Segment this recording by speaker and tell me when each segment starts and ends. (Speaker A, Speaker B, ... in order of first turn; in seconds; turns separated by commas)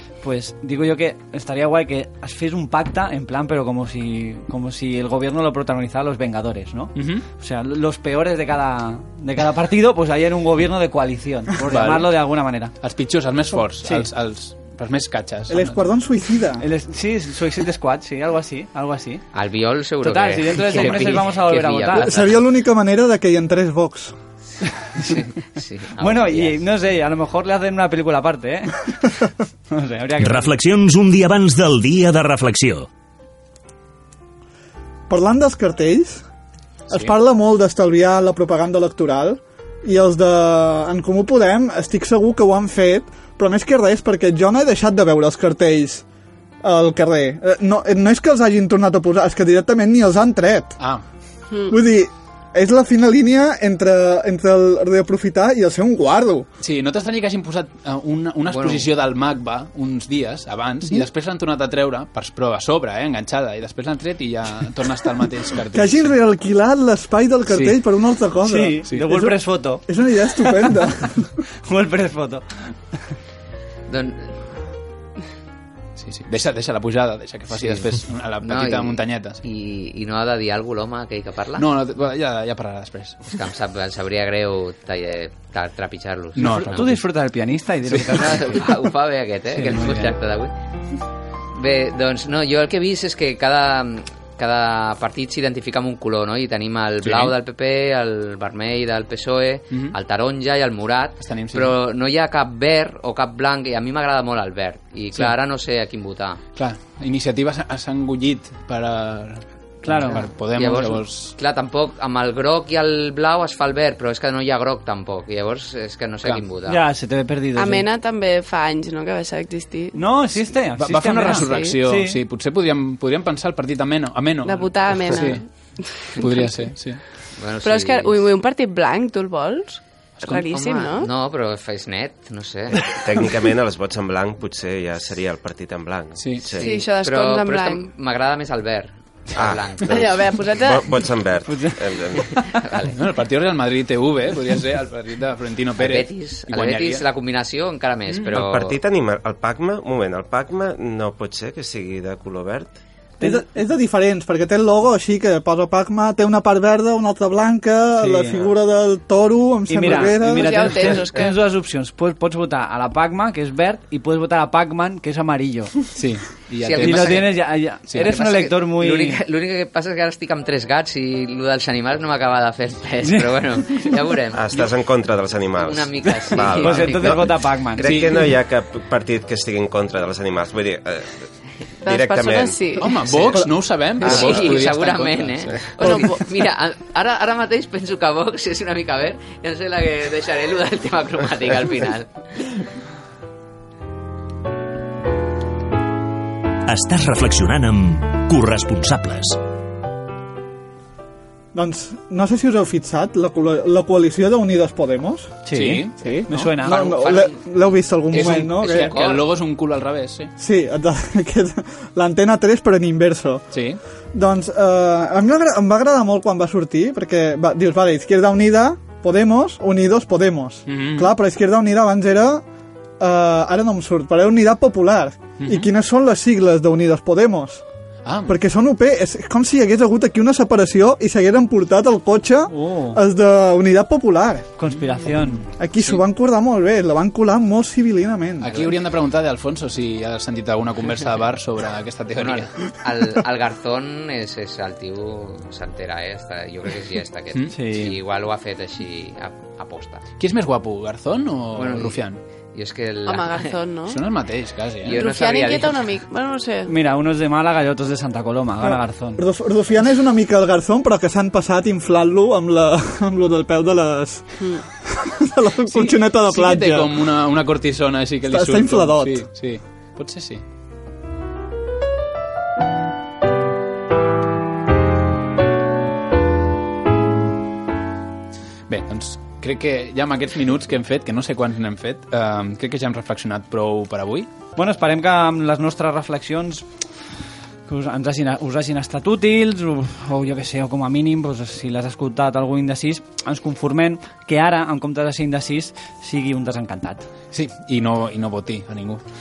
Speaker A: 0.2-12.7, Speaker B: 7.0-7.2, Speaker B: 11.7-12.1, Speaker B: 12.8-15.8, Speaker C: 15.5-16.6, Speaker A: 16.6-19.2, Speaker D: 19.3-22.4, Speaker A: 20.0-22.1, Speaker C: 21.9-24.1, Speaker D: 24.9-26.6, Speaker A: 26.0-30.6, Speaker E: 30.2-32.9, Speaker C: 35.1-36.2, Speaker C: 36.9-46.0, Speaker C: 46.6-50.8, Speaker C: 51.7-56.5, Speaker B: 56.6-66.1, Speaker D: 58.5-58.9, Speaker C: 65.7-71.3, Speaker B: 67.5-67.8, Speaker A: 68.4-70.8, Speaker A: 71.6-72.7, Speaker D: 73.9-74.4, Speaker B: 76.0-79.4, Speaker D: 78.4-81.7, Speaker B: 81.6-83.3, Speaker D: 83.3-86.9, Speaker B: 86.3-87.0, Speaker A: 86.3-88.7, Speaker D: 88.1-90.5, Speaker A: 89.5-89.9, Speaker B: 89.7-90.1, Speaker D: 91.5-106.4, Speaker B: 97.0-97.3, Speaker B: 101.2-101.8, Speaker B: 106.6-111.3, Speaker A: 109.8-110.2, Speaker D: 110.5-116.8, Speaker A: 116.6-117.8, Speaker F: 117.6-120.0, Speaker A: 119.9-122.2, Speaker B: 120.8-125.4, Speaker F: 124.4-126.4, Speaker B: 126.1-127.0, Speaker D: 127.4-128.3, Speaker F: 127.6-131.1, Speaker B: 130.2-130.8, Speaker D: 130.8-132.8, Speaker G: 132.9-136.8, Speaker B: 136.2-136.6, Speaker D: 136.6-139.9, Speaker F: 136.6-137.8, Speaker G: 139.4-142.3, Speaker F: 140.0-140.8, Speaker A: 141.4-142.6, Speaker D: 142.4-143.0, Speaker B: 142.9-147.1, Speaker D: 145.8-148.8, Speaker B: 148.1-148.4, Speaker G: 148.3-152.8, Speaker A: 153.2-153.4, Speaker C: 153.2-161.0, Speaker A: 158.0-158.4, Speaker A: 159.7-165.8, Speaker F: 160.3-161.3, Speaker B: 165.9-168.1, Speaker D: 166.6-174.8, Speaker A: 166.8-169.2, Speaker G: 174.3-181.3, Speaker D: 175.5-177.3, Speaker A: 176.4-178.0, Speaker B: 177.8-178.3, Speaker G: 181.8-182.7, Speaker F: 181.9-182.9, Speaker B: 182.7-186.1, Speaker D: 184.0-192.6, Speaker G: 184.0-184.6, Speaker F: 185.8-186.0, Speaker E: 196.7-199.4, Speaker C: 201.5-205.4, Speaker A: 205.4-207.0, Speaker B: 205.5-206.5, Speaker C: 206.0-208.9, Speaker D: 206.6-209.3, Speaker B: 208.1-210.3, Speaker C: 210.4-213.4, Speaker B: 213.5-213.8, Speaker C: 214.1-222.4, Speaker B: 220.7-221.1, Speaker C: 223.0-227.6, Speaker B: 225.4-225.7, Speaker B: 228.1-228.4, Speaker C: 228.2-234.5, Speaker A: 232.5-233.0, Speaker A: 234.6-235.4, Speaker C: 235.6-238.6, Speaker B: 238.4-242.7, Speaker D: 242.1-250.0, Speaker A: 247.5-248.0, Speaker B: 250.2-252.2, Speaker D: 251.6-252.0, Speaker D: 252.5-253.6, Speaker F: 253.1-254.0, Speaker B: 253.8-255.0, Speaker D: 254.8-255.9, Speaker F: 255.0-256.7, Speaker A: 256.7-259.2, Speaker C: 258.6-266.9, Speaker B: 265.7-270.4, Speaker C: 268.3-269.2, Speaker B: 278.7-284.3, Speaker A: 284.6-286.7, Speaker A: 287.7-297.1, Speaker B: 297.3-299.0